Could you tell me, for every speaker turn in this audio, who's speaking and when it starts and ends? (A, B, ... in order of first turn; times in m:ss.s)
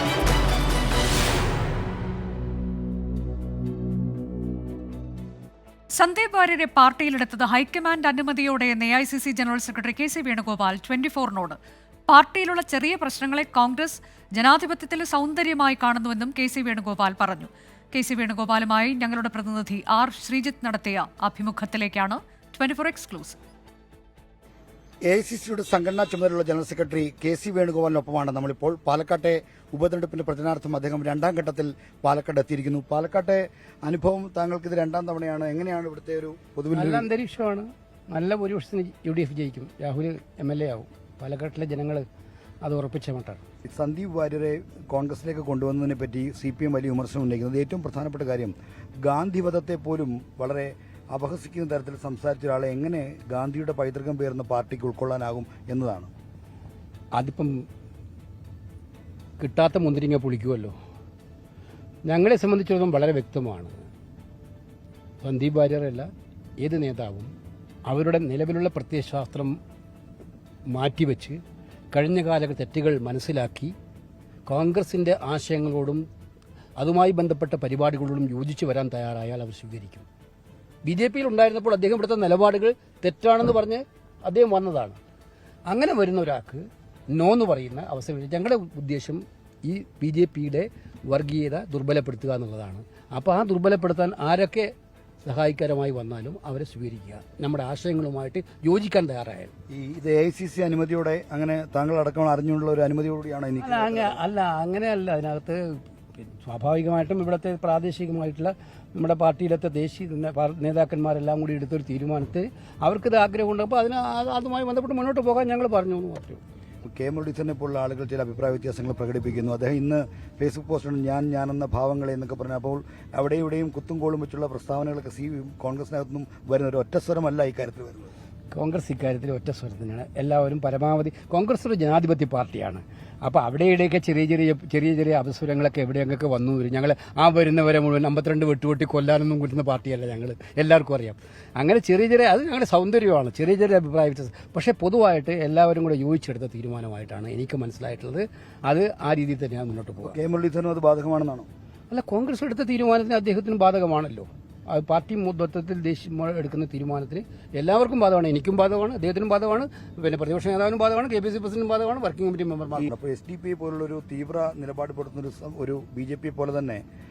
0:06.0-0:11.6 A
0:12.1-0:23.4 A
0:25.1-0:37.1 B
0:36.7-0:42.0 C
0:42.6-0:43.4 C
0:43.6-0:56.1 B
0:57.2-0:57.6 C
0:59.4-1:00.7 C
1:02.1-1:03.7 C
1:05.2-1:06.1 C
1:06.6-1:07.3 C
1:07.9-1:09.6 C
1:10.7-1:11.4 C
1:11.9-1:13.7 C
1:14.5-1:16.0 C
1:16.8-1:20.0 C
1:20.8-1:25.0 C
1:25.7-1:34.7 C
1:35.2-1:39.5 C
1:39.7-1:44.2 B
1:43.6-1:45.6 C
1:46.4-1:56.4 C
1:56.8-2:08.1 B
2:08.5-2:30.2 C
2:30.0-2:31.5 B
2:31.9-2:42.9 C
2:42.8-2:46.8 B